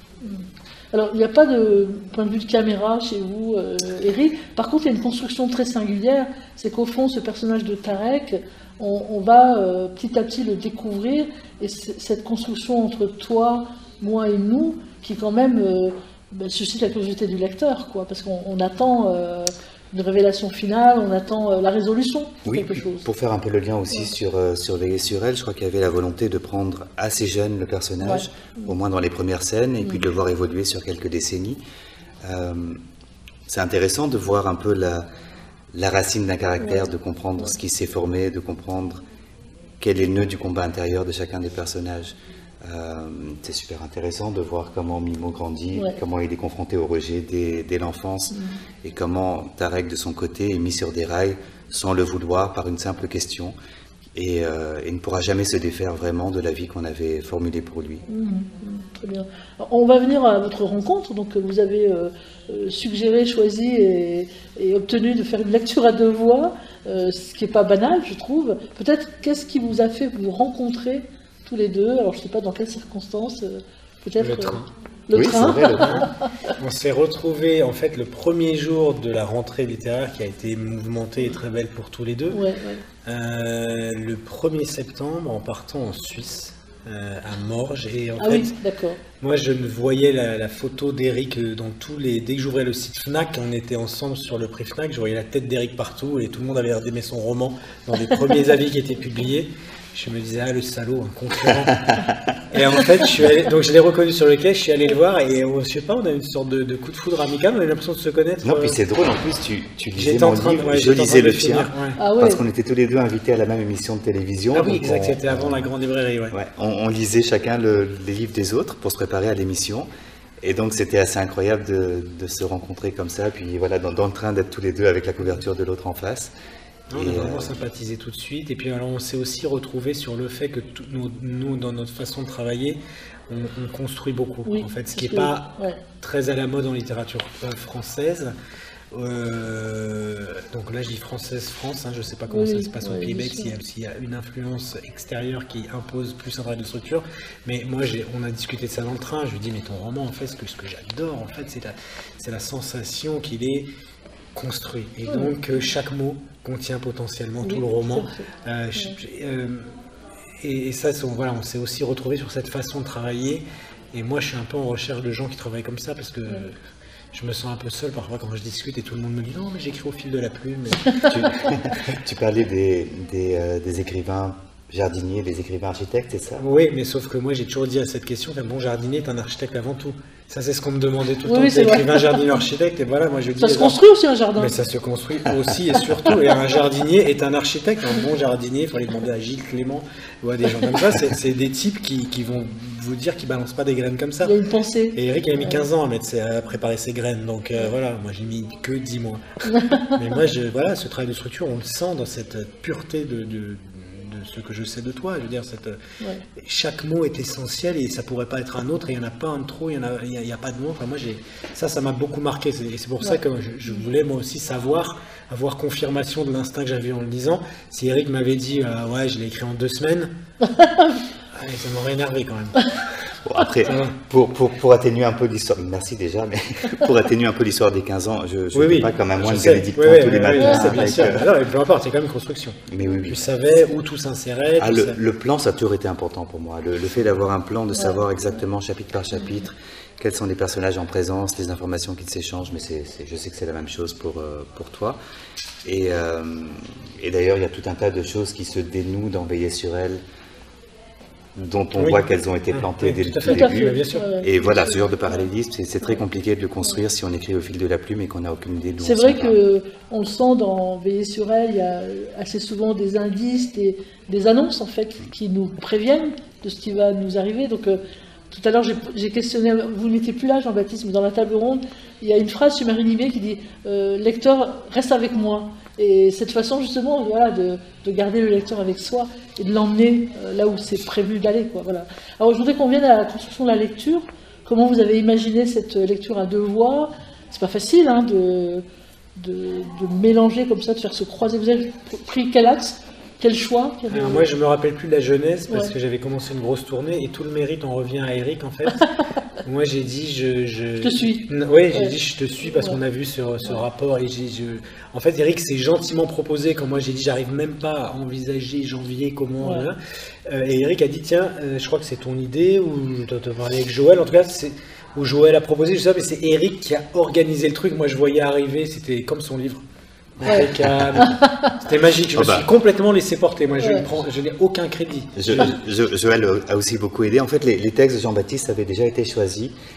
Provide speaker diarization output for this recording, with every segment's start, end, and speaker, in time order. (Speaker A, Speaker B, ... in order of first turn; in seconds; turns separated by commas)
Speaker A: 0.2-23.1, Speaker B: 22.4-31.6, Speaker A: 28.0-28.7, Speaker B: 32.2-32.8, Speaker B: 33.5-35.1, Speaker B: 35.7-39.0, Speaker A: 36.6-36.9, Speaker B: 39.8-53.5, Speaker A: 48.3-48.6, Speaker B: 54.1-58.0, Speaker A: 58.1-76.5, Speaker C: 74.2-74.7, Speaker B: 75.1-76.1, Speaker C: 75.5-82.4, Speaker A: 82.3-82.8, Speaker C: 83.0-88.5, Speaker A: 88.2-89.0, Speaker C: 89.2-101.8, Speaker B: 101.7-102.3, Speaker C: 102.5-108.8, Speaker B: 108.4-115.7, Speaker C: 109.9-112.0, Speaker A: 112.0-112.4, Speaker C: 114.5-116.3, Speaker B: 116.3-119.9, Speaker B: 120.4-126.3, Speaker C: 126.9-138.3, Speaker B: 126.9-127.6, Speaker A: 134.4-135.8, Speaker C: 138.9-153.7, Speaker A: 142.3-143.5, Speaker C: 154.3-159.7, Speaker A: 155.1-155.3, Speaker A: 157.4-158.9, Speaker C: 160.4-166.6, Speaker C: 167.1-171.5, Speaker B: 171.1-176.4, Speaker C: 176.4-183.8, Speaker A: 181.2-182.4, Speaker A: 183.4-184.5, Speaker C: 184.3-194.3, Speaker A: 194.2-195.6, Speaker C: 194.9-205.8, Speaker A: 199.5-200.0, Speaker C: 206.3-220.1, Speaker A: 213.0-213.8, Speaker A: 220.4-221.0, Speaker C: 221.3-222.9, Speaker B: 223.2-231.3, Speaker C: 223.6-223.9, Speaker C: 228.5-235.0, Speaker A: 230.3-231.0, Speaker B: 232.7-233.2, Speaker B: 234.6-245.0, Speaker A: 237.7-238.0, Speaker A: 239.2-239.4, Speaker B: 245.6-250.0, Speaker B: 251.3-259.4, Speaker C: 251.7-254.1, Speaker A: 253.2-255.3, Speaker A: 258.8-288.6, Speaker A: 289.1-294.3, Speaker C: 293.9-298.8, Speaker C: 299.4-319.6, Speaker A: 300.8-302.8, Speaker A: 309.4-309.7, Speaker B: 320.2-321.1, Speaker C: 320.2-325.5, Speaker A: 320.3-321.5, Speaker B: 322.1-322.5, Speaker A: 323.6-323.9, Speaker B: 325.1-329.5